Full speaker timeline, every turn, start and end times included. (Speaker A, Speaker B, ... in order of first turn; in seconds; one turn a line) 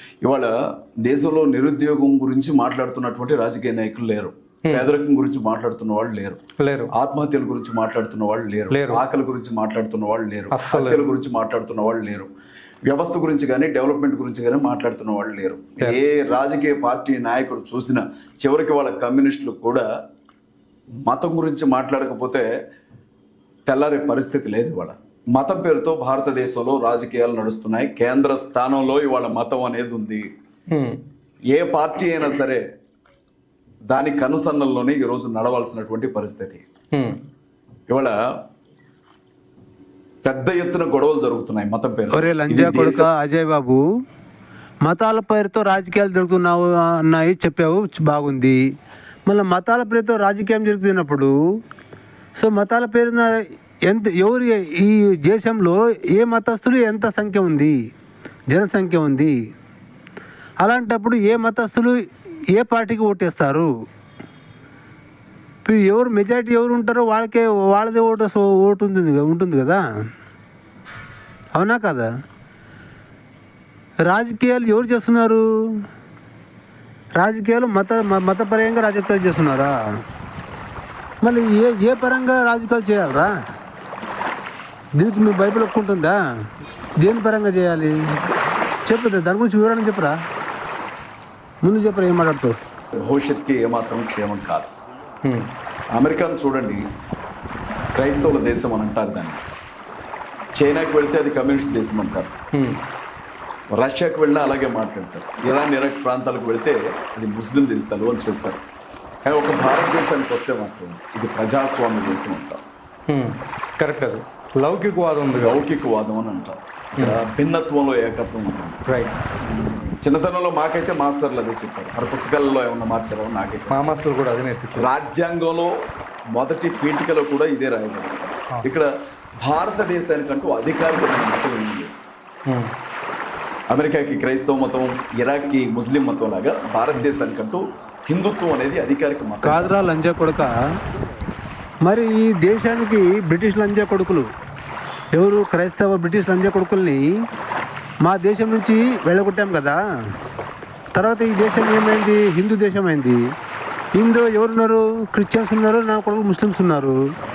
Speaker A: 0.2-0.5
Speaker A: 1.0-6.4
Speaker B: 4.7-4.9
Speaker B: 6.6-6.9
Speaker A: 6.9-12.3
Speaker B: 8.7-9.0
Speaker B: 10.5-11.0
Speaker A: 12.8-19.8
Speaker A: 21.0-22.5
Speaker A: 23.7-30.2
Speaker B: 30.7-31.0
Speaker A: 31.5-32.6
Speaker A: 33.9-36.6
Speaker B: 36.9-37.2
Speaker A: 37.9-38.1
Speaker A: 40.2-43.1
Speaker C: 42.1-43.8
Speaker C: 44.8-48.6
Speaker C: 49.3-51.3
Speaker C: 52.4-57.8
Speaker C: 58.5-59.3
Speaker C: 60.6-61.9
Speaker C: 62.5-63.7
Speaker C: 65.6-69.8
Speaker C: 71.5-72.1
Speaker C: 74.1-75.4
Speaker C: 77.2-79.7
Speaker C: 81.2-83.3
Speaker C: 85.0-86.2
Speaker C: 87.0-87.9
Speaker C: 88.9-90.1
Speaker C: 91.6-92.5
Speaker A: 92.9-94.7
Speaker B: 95.2-95.5
Speaker A: 95.9-96.8
Speaker A: 97.9-99.4
Speaker A: 100.6-102.3
Speaker B: 102.5-102.8
Speaker A: 103.7-108.6
Speaker A: 109.2-112.6
Speaker B: 113.1-115.6
Speaker A: 115.4-118.8
Speaker B: 117.0-117.2
Speaker B: 118.9-119.1
Speaker A: 119.4-123.8
Speaker B: 123.7-124.9
Speaker A: 124.8-125.7
Speaker A: 126.3-128.9
Speaker A: 129.4-131.9
Speaker A: 133.7-139.7
Speaker C: 139.4-140.5
Speaker C: 141.8-144.3
Speaker C: 145.2-147.0
Speaker C: 148.0-149.8
Speaker C: 150.9-153.2
Speaker C: 153.9-156.9